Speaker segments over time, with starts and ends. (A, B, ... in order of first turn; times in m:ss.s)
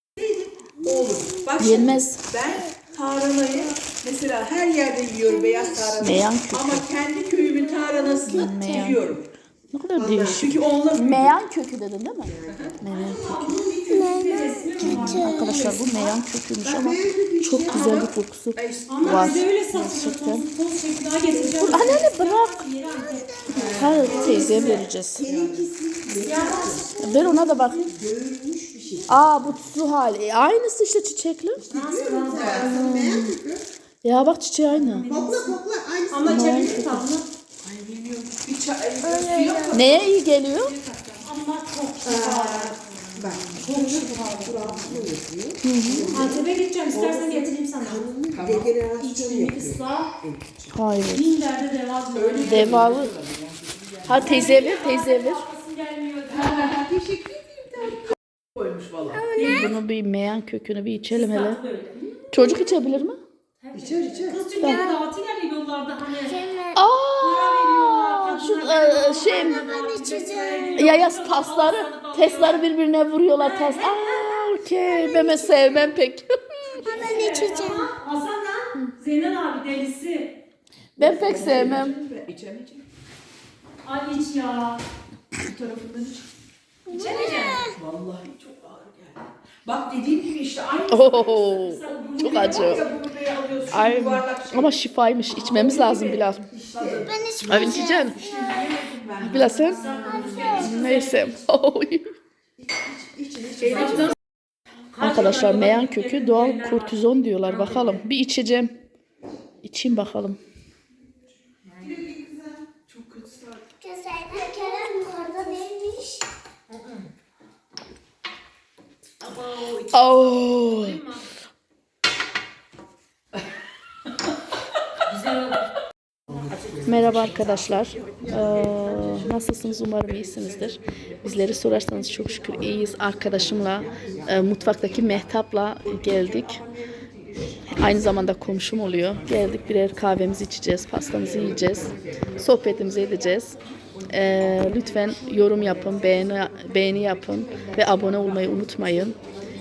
0:00.2-0:09.3 A
0:00.9-0:01.4 B
0:01.6-0:02.4 C
0:05.3-0:05.9 B
0:06.0-0:06.8 C
0:08.0-0:08.4 B
0:08.2-0:09.0 C
0:09.7-0:13.7 C
0:10.0-0:11.4 A
0:12.3-0:14.0 D
0:13.0-0:16.2 E
0:13.8-0:15.5 B
0:14.8-0:20.4 C
0:16.6-0:17.9 D
0:17.7-0:19.4 A
0:18.9-0:24.8 E
0:21.3-0:21.7 D
0:21.7-0:22.6 C
0:23.0-0:23.6 B
0:23.5-0:25.6 A
0:23.6-0:25.2 C
0:24.0-0:29.2 D
0:26.2-0:27.6 E
0:27.0-0:27.9 C
0:29.1-0:31.6 C
0:31.6-0:33.6 D
0:31.7-0:32.7 E
0:32.3-0:32.7 A
0:32.6-0:33.4 C
0:34.0-0:35.1 C
0:34.7-0:35.6 E
0:35.0-0:36.9 D
0:36.1-0:37.2 E
0:36.2-0:37.1 C
0:37.6-0:41.2 A
0:39.0-0:39.7 B
0:39.7-0:40.7 C
0:41.2-0:44.8 E
0:42.0-0:50.7 D
0:43.6-0:44.0 A
0:45.6-0:46.1 C
0:46.1-0:48.1 E
0:48.3-0:48.7 A
0:49.0-0:50.1 E
0:50.7-0:51.3 C
0:51.1-0:52.7 E
0:52.1-0:54.6 A
0:52.4-0:53.2 C
0:54.0-0:55.4 C
0:54.2-0:56.7 E
0:56.4-0:56.8 A
0:56.4-0:58.0 D
0:58.5-0:59.2 A
0:59.2-0:59.7 B
0:59.3-0:59.7 E
0:59.4-1:01.6 C
1:01.1-1:01.9 E
1:02.3-1:03.2 C
1:03.6-1:06.4 E
1:03.7-1:04.4 D
1:04.6-1:04.8 C
1:06.3-1:06.8 B
1:06.7-1:09.6 C
1:07.2-1:12.7 E
1:09.3-1:10.8 B
1:10.8-1:16.9 C
1:13.3-1:14.6 E
1:14.8-1:15.9 B
1:16.8-1:20.3 E
1:16.9-1:17.9 B
1:21.0-1:22.0 C
1:21.0-1:22.8 A
1:23.8-1:24.8 E
1:25.4-1:26.3 A
1:26.9-1:34.7 A
1:26.9-1:27.7 E
1:26.9-1:27.8 B
1:30.9-1:32.8 C
1:31.6-1:32.9 E
1:33.7-1:36.4 C
1:35.3-1:40.8 A
1:36.5-1:37.2 D
1:37.1-1:38.6 B
1:37.4-1:38.2 C
1:39.2-1:39.9 C
1:39.7-1:41.4 E
1:40.0-1:40.7 B
1:40.4-1:42.1 C
1:42.6-1:44.1 D
1:43.6-1:44.1 A
1:44.9-1:48.0 E
1:45.0-1:48.7 C
1:49.6-1:50.4 C
1:51.8-1:52.7 D
1:52.8-1:53.6 A
1:53.8-1:56.2 B
1:59.2-1:59.8 A
1:59.9-2:01.0 C
2:00.7-2:01.3 E
2:05.0-2:05.6 E
2:06.8-2:16.6 C
2:17.7-2:23.6 C
2:24.1-2:29.2 C